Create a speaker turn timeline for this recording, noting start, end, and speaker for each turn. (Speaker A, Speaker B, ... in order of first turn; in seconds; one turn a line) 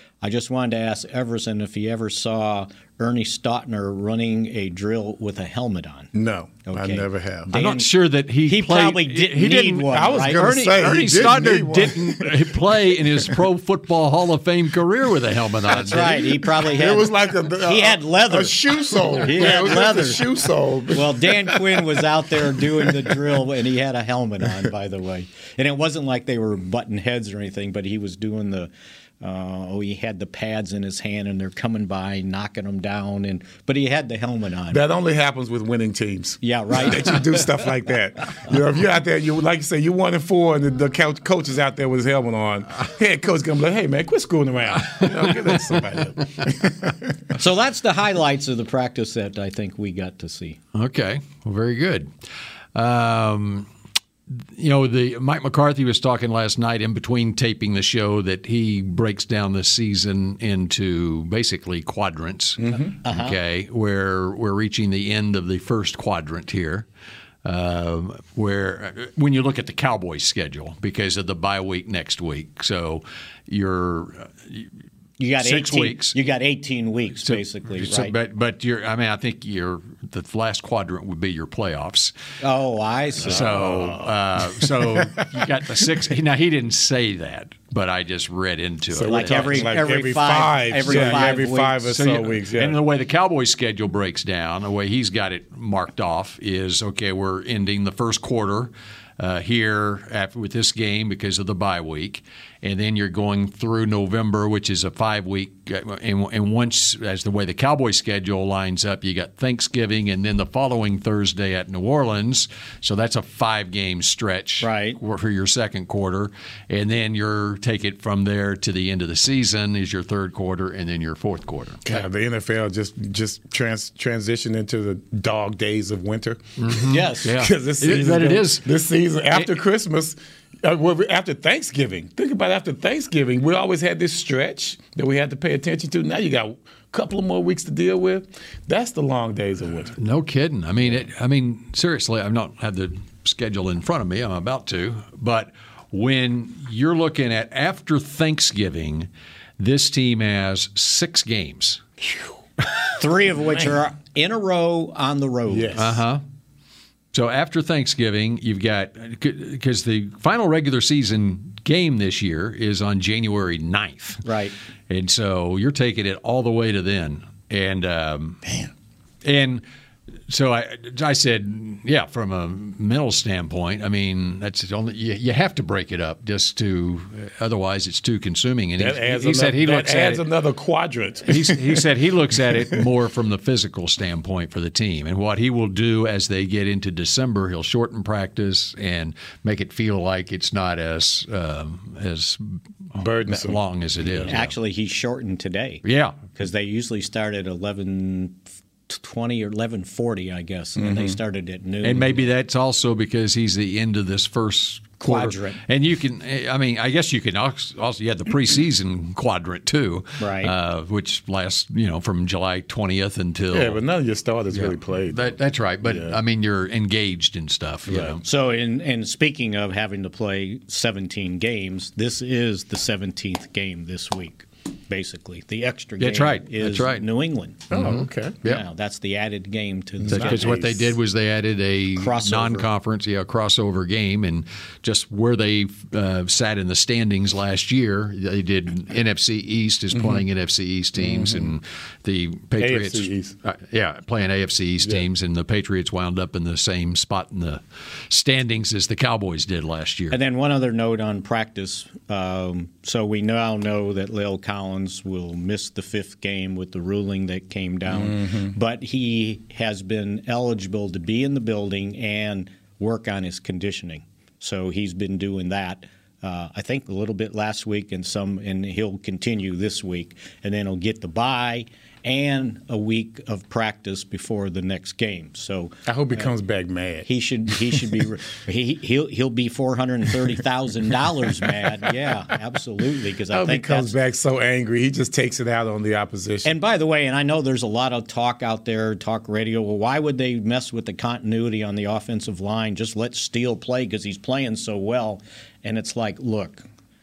Speaker A: 0.2-6.1
Speaker B: 6.1-7.5
Speaker A: 6.7-7.9
Speaker C: 7.5-16.3
Speaker A: 8.4-10.8
Speaker B: 9.8-12.6
Speaker A: 15.7-20.2
Speaker B: 15.9-23.2
Speaker A: 20.9-34.8
Speaker B: 34.7-47.2
Speaker A: 36.4-37.5
Speaker C: 45.0-45.3
Speaker A: 47.3-50.6
Speaker C: 50.7-52.1
Speaker C: 52.7-53.7
Speaker C: 54.3-66.8
Speaker B: 62.6-62.9
Speaker A: 63.0-63.4
Speaker C: 67.4-74.7
Speaker A: 75.2-78.1
Speaker C: 75.4-76.1
Speaker C: 77.2-82.1
Speaker A: 82.4-83.7
Speaker B: 83.2-85.2
Speaker C: 83.2-89.7
Speaker B: 88.9-92.8
Speaker A: 89.1-91.8
Speaker C: 90.9-91.2
Speaker C: 91.9-122.0
Speaker A: 114.6-115.0
Speaker B: 121.8-139.9
Speaker C: 126.6-128.7
Speaker A: 126.9-127.3
Speaker C: 140.0-149.1
Speaker C: 149.6-151.8
Speaker A: 153.0-155.8
Speaker B: 155.5-156.0
Speaker C: 155.8-156.2
Speaker C: 157.1-164.2
Speaker A: 164.2-164.5
Speaker C: 164.9-168.4
Speaker C: 169.2-169.6
Speaker C: 170.3-180.2
Speaker B: 178.8-181.8
Speaker C: 181.3-194.5
Speaker B: 182.5-182.8
Speaker B: 192.9-194.3
Speaker A: 194.3-202.3
Speaker C: 195.8-196.3
Speaker B: 200.8-201.2
Speaker C: 201.8-213.8
Speaker A: 205.0-205.6
Speaker A: 210.2-210.5
Speaker B: 213.5-216.2
Speaker C: 214.5-218.2
Speaker A: 218.0-227.8
Speaker C: 226.0-227.1
Speaker B: 227.7-228.4
Speaker C: 227.7-228.6
Speaker A: 228.4-230.8
Speaker B: 230.0-230.8
Speaker C: 230.1-250.2
Speaker A: 232.0-232.7
Speaker B: 239.9-240.2
Speaker B: 241.0-241.5
Speaker B: 242.6-243.4
Speaker A: 250.1-276.2
Speaker B: 257.9-258.5
Speaker B: 275.9-277.1
Speaker A: 277.0-283.9
Speaker B: 283.3-286.5
Speaker A: 286.4-296.6